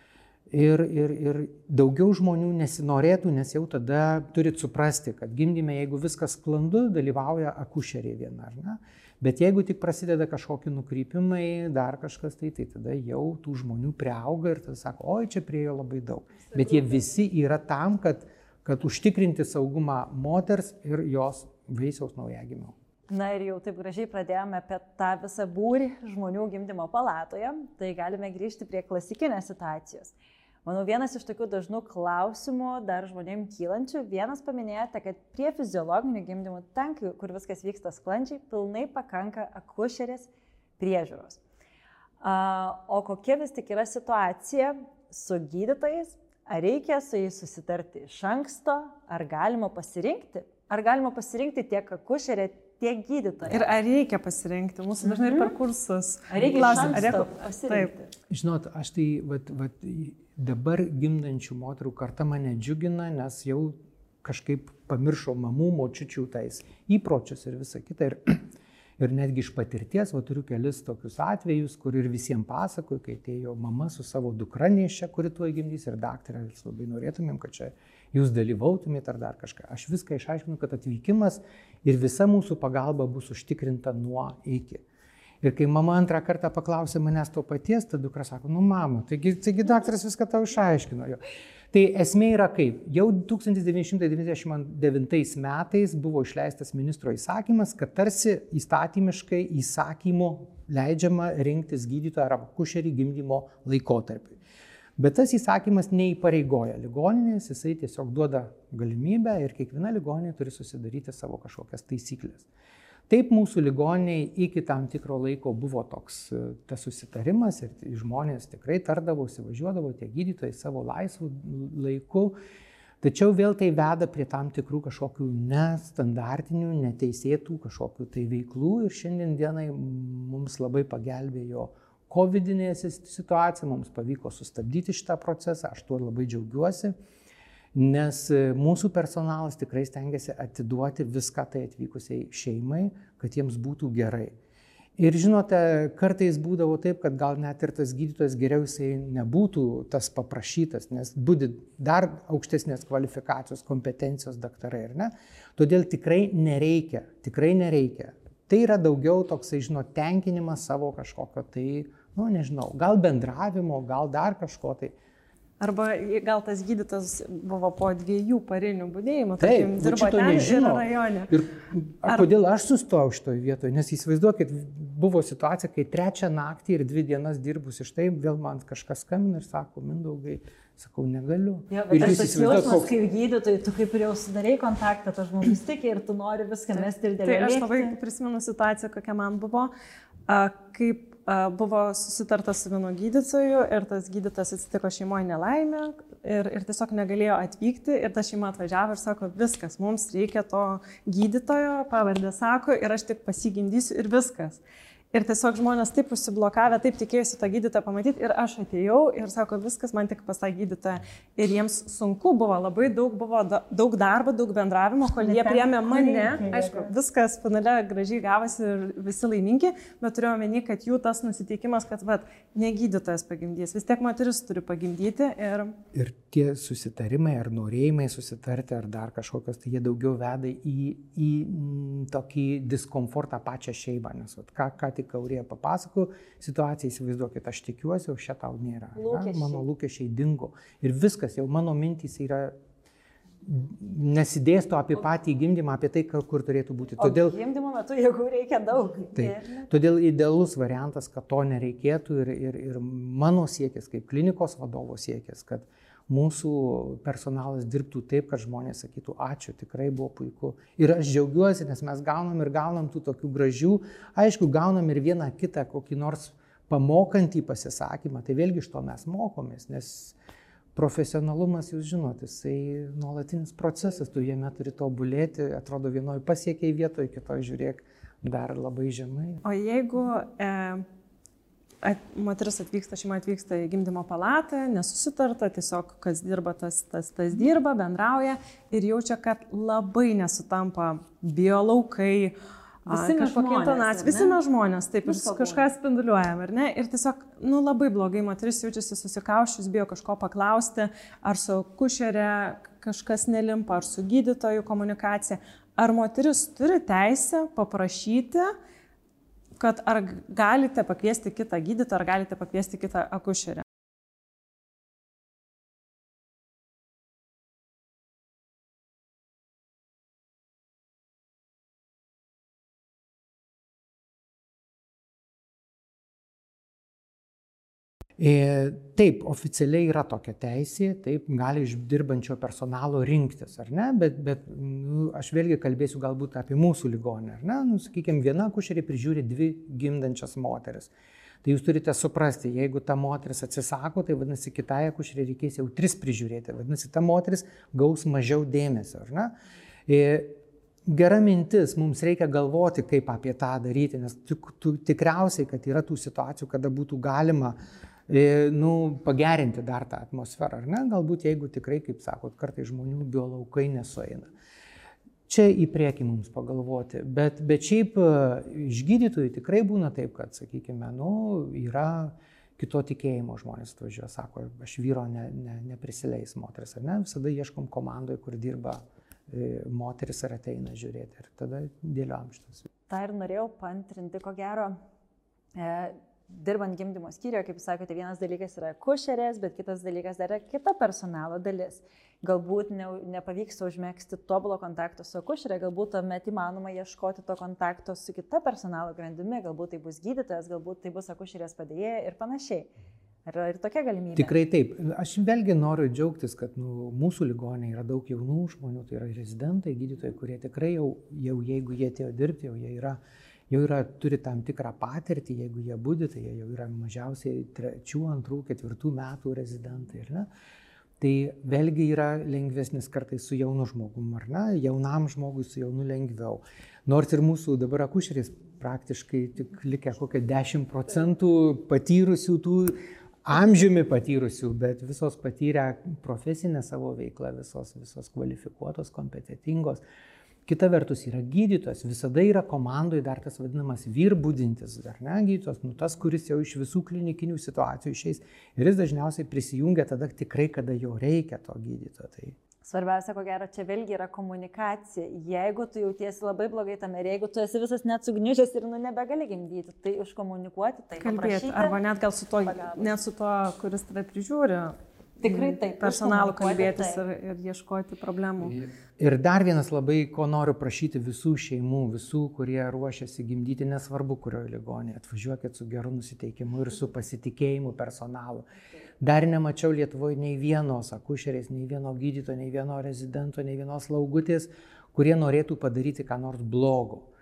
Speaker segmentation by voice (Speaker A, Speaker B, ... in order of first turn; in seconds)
Speaker A: 0.5-22.7, 58.3-68.5, 69.0-84.8, 85.4-91.2, 91.7-104.4, 105.0-112.5, 113.1-122.3, 123.0-136.9, 137.7-144.3, 145.0-164.9, 169.4-182.9, 225.9-242.5, 243.4-247.3, 249.1-270.2, 270.7-279.4, 328.2-340.9, 341.4-349.3, 349.9-357.6, 358.1-364.3, 365.3-382.6, 404.1-413.0, 413.5-420.3, 421.0-439.8, 440.4-452.4, 468.4-478.4, 479.0-487.1
Speaker B: 23.1-41.4, 42.2-53.7, 55.0-55.5, 56.3-58.1, 181.7-187.9, 215.2-216.9, 238.9-239.6, 247.0-249.9, 292.9-294.4, 295.0-295.7, 382.9-384.7, 385.6-402.7, 403.2-404.3, 452.6-461.8, 462.4-462.9, 465.2-467.0
Speaker C: 53.5-57.9, 165.6-171.3, 187.2-189.7, 190.3-204.6, 205.1-225.8, 279.4-280.8, 281.8-292.3, 292.9-308.5, 309.6-313.6, 461.0-468.5